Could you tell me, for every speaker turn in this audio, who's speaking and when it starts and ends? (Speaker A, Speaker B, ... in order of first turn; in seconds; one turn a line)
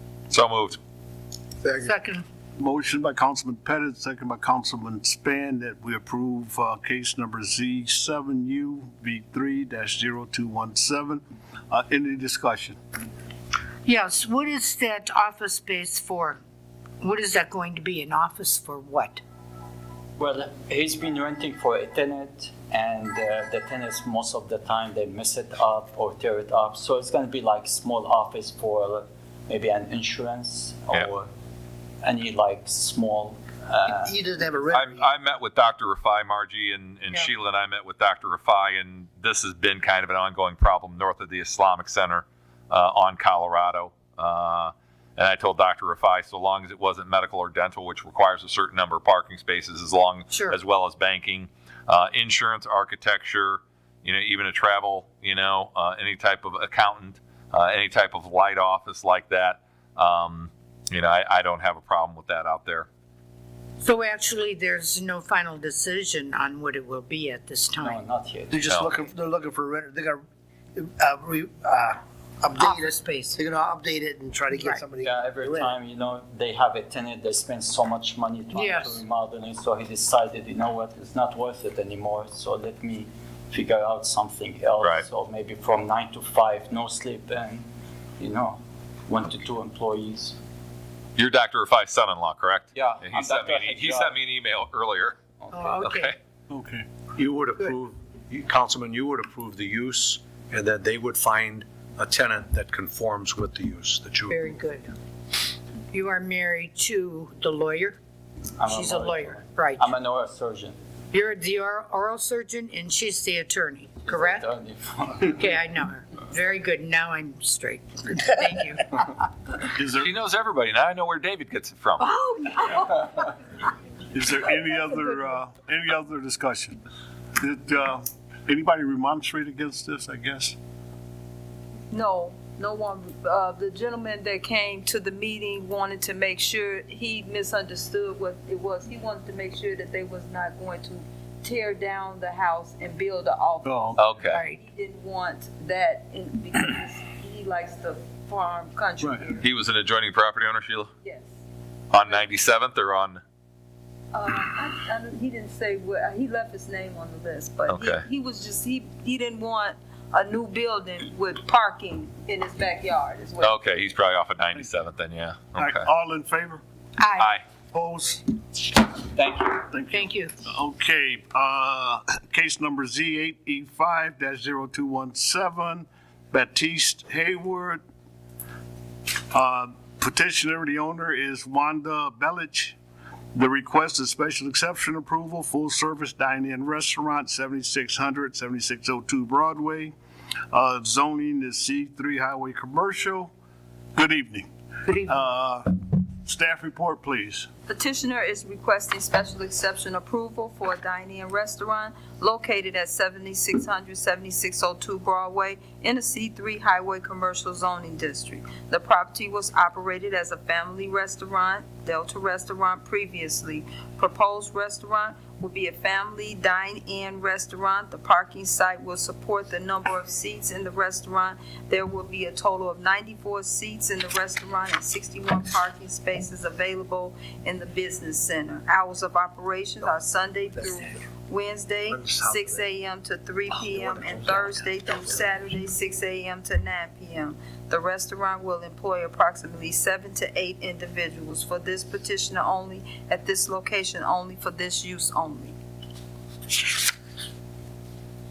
Speaker A: 0.3-0.8
Speaker B: 1.8-2.2
Speaker C: 2.6-12.8
Speaker B: 13.8-16.4
Speaker B: 17.0-19.2
Speaker D: 20.2-31.3
Speaker D: 32.0-34.2
Speaker E: 34.0-35.1
Speaker A: 34.7-62.9
Speaker B: 50.3-50.6
Speaker B: 63.8-68.0
Speaker D: 67.8-68.7
Speaker E: 68.5-70.2
Speaker A: 68.6-68.9
Speaker E: 70.8-75.7
Speaker B: 72.5-73.4
Speaker B: 74.5-74.9
Speaker D: 75.0-87.7
Speaker B: 78.5-79.0
Speaker A: 84.8-85.1
Speaker D: 88.2-90.4
Speaker A: 91.2-95.2
Speaker D: 92.7-94.2
Speaker D: 95.4-95.9
Speaker B: 95.5-96.1
Speaker A: 95.8-96.1
Speaker C: 96.5-96.9
Speaker F: 97.1-104.4
Speaker B: 104.3-104.9
Speaker B: 105.9-108.0
Speaker D: 108.6-110.8
Speaker B: 108.7-109.9
Speaker B: 111.1-114.5
Speaker D: 114.0-115.5
Speaker B: 115.2-119.1
Speaker C: 119.8-120.1
Speaker A: 120.0-122.1
Speaker B: 122.0-123.0
Speaker C: 124.1-126.8
Speaker C: 127.4-130.6
Speaker G: 131.9-149.5
Speaker C: 143.6-144.0
Speaker A: 144.0-144.4
Speaker B: 144.3-144.6
Speaker A: 149.4-150.9
Speaker G: 151.0-151.3
Speaker A: 151.9-153.2
Speaker G: 152.0-152.3
Speaker G: 154.1-163.6
Speaker A: 157.7-158.1
Speaker A: 163.4-165.9
Speaker C: 165.6-166.6
Speaker B: 167.0-167.3
Speaker A: 167.2-167.4
Speaker C: 167.7-168.2
Speaker D: 169.1-169.6
Speaker C: 169.7-177.8
Speaker B: 169.9-170.3
Speaker C: 179.3-182.8
Speaker C: 183.3-189.9
Speaker C: 190.5-193.3
Speaker C: 194.0-194.5
Speaker B: 194.9-195.3
Speaker C: 195.0-195.7
Speaker C: 196.2-197.5
Speaker G: 197.7-245.6